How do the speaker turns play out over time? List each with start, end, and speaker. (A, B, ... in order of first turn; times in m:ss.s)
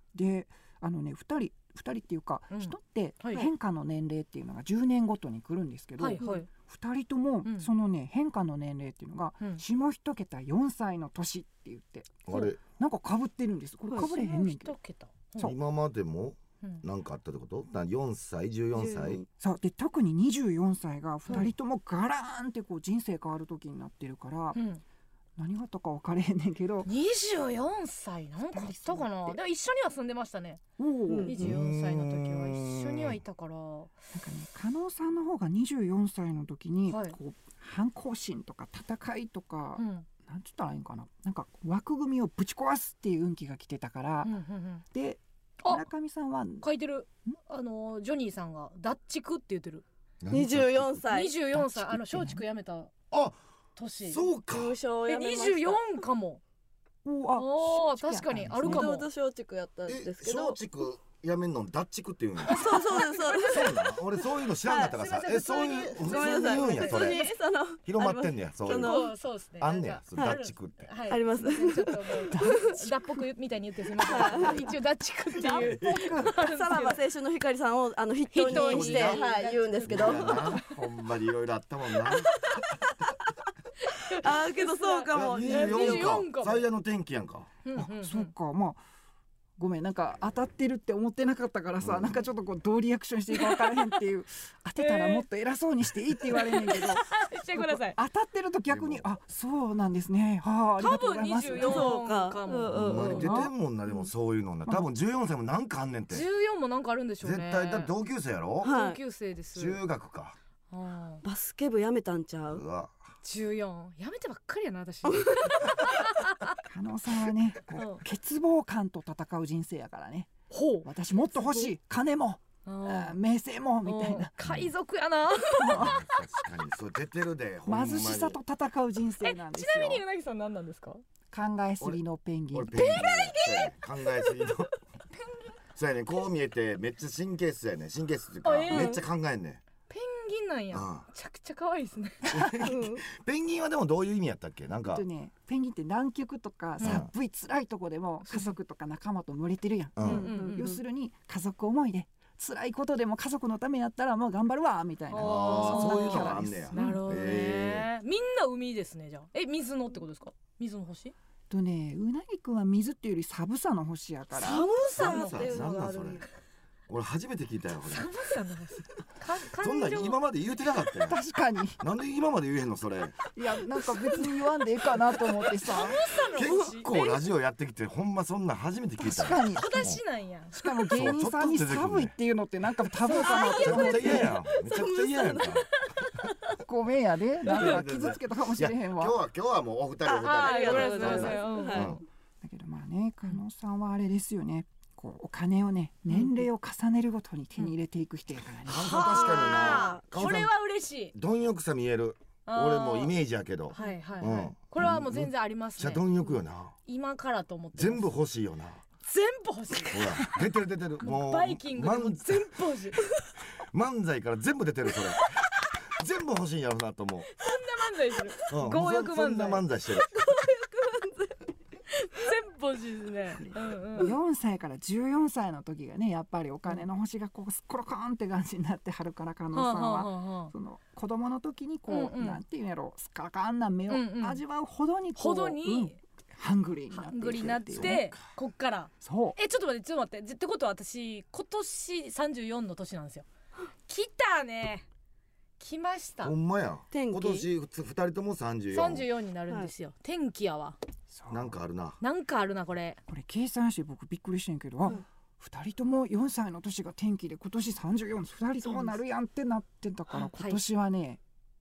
0:00.1-0:14.7 A
0:02.5-0:03.5 B
0:06.0-0:06.5 B
0:12.2-0:12.6 C
0:14.0-0:15.5 B
0:15.4-0:19.2 C
0:18.8-0:19.3 D
0:19.4-0:24.6 A
0:24.6-0:24.8 B
0:25.4-0:26.9 A
0:26.9-0:30.6 B
0:28.4-0:29.4 A
0:30.8-0:31.4 A
0:31.1-0:31.4 D
0:31.2-0:34.0 B
0:31.4-0:33.2 C
0:34.1-0:44.4 A
0:36.9-0:37.2 B
0:39.8-0:40.1 B
0:44.2-0:44.8 B
0:44.9-0:46.7 A
0:46.6-0:49.8 B
0:50.2-0:51.0 C
0:50.3-0:51.3 D
0:51.1-0:52.9 B
0:51.5-0:52.4 A
0:53.1-0:53.4 C
0:53.8-0:54.2 B
0:54.0-0:54.7 C
0:54.5-0:55.8 D
0:55.1-0:56.4 B
0:57.0-0:58.9 A
0:57.4-0:59.1 B
0:58.6-1:00.6 D
0:59.9-1:02.6 C
1:02.4-1:03.9 D
1:02.5-1:03.9 B
1:03.5-1:07.3 C
1:04.6-1:04.9 D
1:04.7-1:07.3 B
1:06.0-1:09.1 D
1:07.9-1:09.1 C
1:08.7-1:17.0 B
1:09.6-1:10.9 C
1:11.1-1:12.8 D
1:12.3-1:12.6 A
1:14.0-1:14.7 D
1:14.2-1:14.7 A
1:15.4-1:16.2 C
1:15.4-1:16.3 A
1:16.3-1:20.6 D
1:18.3-1:20.7 B
1:18.5-1:19.2 C
1:19.9-1:22.3 C
1:22.1-1:22.6 D
1:23.9-1:26.6 B
1:24.0-1:26.2 D
1:25.1-1:27.5 C
1:27.6-1:28.3 B
1:27.8-1:28.8 A
1:29.6-1:37.1 A
1:31.8-1:32.2 C
1:33.3-1:34.0 B
1:34.8-1:35.2 B
1:36.2-1:38.0 B
1:37.7-1:42.0 A
1:38.7-1:39.1 C
1:40.8-1:43.5 B
1:41.5-1:43.5 D
1:42.7-1:46.3 C
1:46.1-1:47.9 B
1:47.2-1:48.7 C
1:48.6-1:49.0 D
1:48.6-1:49.8 B
1:49.6-1:50.4 C
1:50.7-1:51.2 B
1:51.2-1:52.6 D
1:52.5-1:52.9 C
1:53.2-1:56.6 B
1:56.7-2:00.3 A
1:57.7-1:58.0 B
2:00.5-2:00.9 B
2:00.8-2:04.3 A
2:01.4-2:01.7 D
2:02.7-2:03.2 B
2:03.8-2:06.2 B
2:04.4-2:04.7 C
2:05.5-2:06.0 A
2:05.7-2:08.4 C
2:07.7-2:10.0 A
2:09.2-2:11.0 B
2:11.3-2:12.9 A
2:12.5-2:14.7 C
2:12.7-2:14.3 B
2:15.2-2:15.5 B
2:15.8-2:19.6 C
2:18.4-2:19.0 B
2:18.7-2:19.0 D
2:19.9-2:22.5 B
2:20.7-2:21.1 C
2:22.3-2:25.0 C
2:22.6-2:23.0 D
2:24.9-2:37.0 A
2:26.8-2:27.0 B
2:26.8-2:27.1 C
2:28.3-2:28.5 B
2:30.0-2:30.3 C
2:30.0-2:30.7 B
2:30.0-2:30.8 D
2:35.1-2:41.1 B
2:35.2-2:37.9 C
2:41.5-2:44.7 A
2:44.4-2:46.3 D
2:44.9-2:46.2 C
2:44.9-2:45.6 B
2:46.9-2:48.1 C
2:47.9-2:50.2 B
2:49.6-2:51.2 C
2:51.0-2:51.8 A
2:51.8-2:53.2 C
2:53.3-2:56.0 A
2:55.6-2:57.2 B
2:55.7-3:00.0 C
2:59.0-3:00.0 A
2:59.5-3:00.5 B
3:00.5-3:04.3 A
3:00.9-3:02.1 C
3:03.0-3:04.4 B
3:03.3-3:05.7 C
3:04.5-3:05.6 D
3:06.6-3:09.2 A
3:07.4-3:12.0 C
3:07.5-3:07.8 B
3:10.0-3:12.0 D
3:10.2-3:12.0 B
3:12.4-3:19.3 A
3:16.1-3:16.4 B
3:18.7-3:20.5 C
3:18.8-3:21.1 B
3:19.5-3:19.9 D
3:21.1-3:26.8 C
3:22.5-3:23.1 B
3:23.7-3:26.0 B
3:26.9-3:28.1 B
3:27.8-3:28.8 C
3:29.0-3:30.4 B
3:29.9-3:32.6 C
3:31.0-3:33.0 B
3:33.7-3:37.4 C
3:37.4-3:39.6 B
3:38.5-3:40.2 C
3:40.1-3:41.4 D
3:42.1-3:44.2 B
3:44.0-3:58.1 A
3:49.5-3:50.5 B
3:51.9-3:52.4 B
3:53.9-3:54.4 B
3:55.2-3:56.0 B
3:56.9-4:03.3 B
3:57.8-3:58.2 C
3:59.0-3:59.4 A
4:03.9-4:04.9 B
4:05.6-4:06.4 B
4:06.2-4:09.1 C
4:06.9-4:07.5 D
4:08.7-4:10.8 B
4:11.1-4:11.6 A
4:11.3-4:12.0 C
4:12.0-4:13.0 B
4:13.1-4:21.2 A
4:20.1-4:20.6 B